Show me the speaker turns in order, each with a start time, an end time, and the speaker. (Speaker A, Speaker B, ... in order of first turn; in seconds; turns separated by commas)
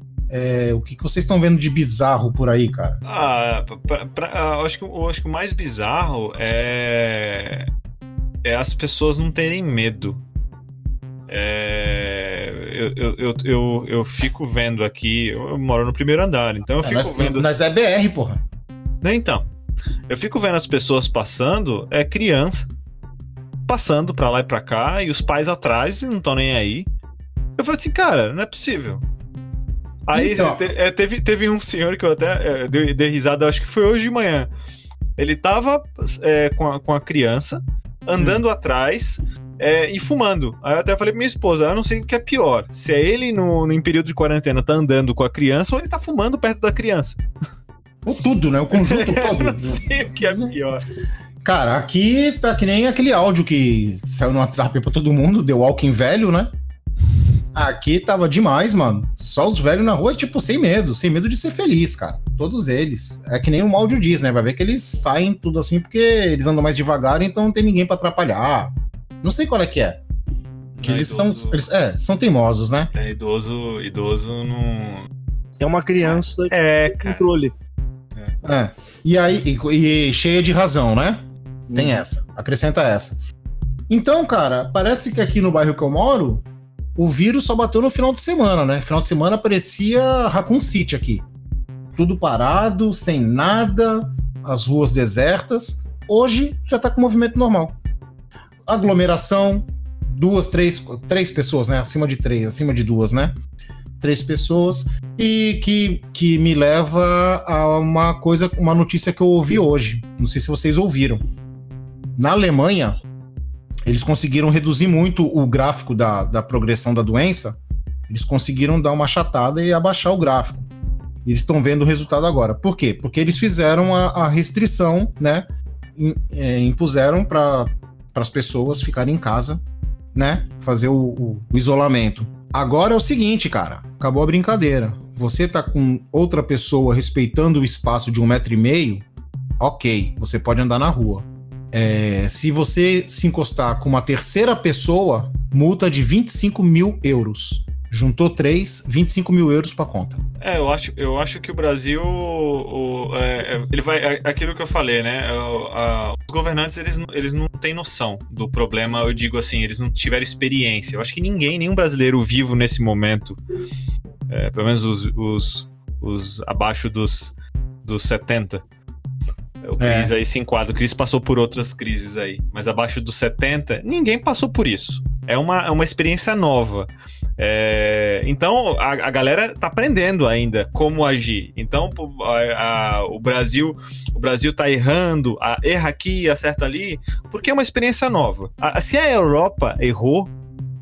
Speaker A: 0.3-3.0, Speaker B: 3.0-7.7, Speaker B: 8.4-10.2, Speaker B: 11.3-17.6, Speaker A: 16.8-18.4, Speaker B: 19.0-19.4, Speaker B: 20.1-22.7, Speaker B: 23.7-26.9, Speaker B: 27.6-29.0, Speaker B: 30.1-34.5, Speaker A: 30.1-30.6, Speaker B: 35.2-47.2, Speaker A: 38.2-38.4, Speaker A: 48.0-50.5, Speaker B: 48.7-50.8, Speaker A: 51.4-56.5, Speaker A: 57.5-70.0, Speaker B: 70.8-71.6, Speaker A: 70.8-72.9, Speaker B: 72.9-75.1, Speaker C: 75.6-77.5, Speaker B: 76.0-77.3, Speaker A: 78.4-83.2, Speaker C: 81.7-82.1, Speaker A: 83.9-86.5, Speaker A: 87.0-91.3, Speaker A: 92.0-97.8, Speaker A: 98.7-103.4, Speaker A: 104.0-111.2, Speaker A: 112.2-113.0, Speaker A: 113.9-117.6, Speaker A: 118.1-120.7, Speaker A: 121.2-129.6, Speaker A: 130.1-139.0, Speaker A: 139.6-150.2, Speaker B: 150.4-163.4, Speaker B: 164.3-168.6, Speaker B: 169.6-190.3, Speaker A: 169.8-170.1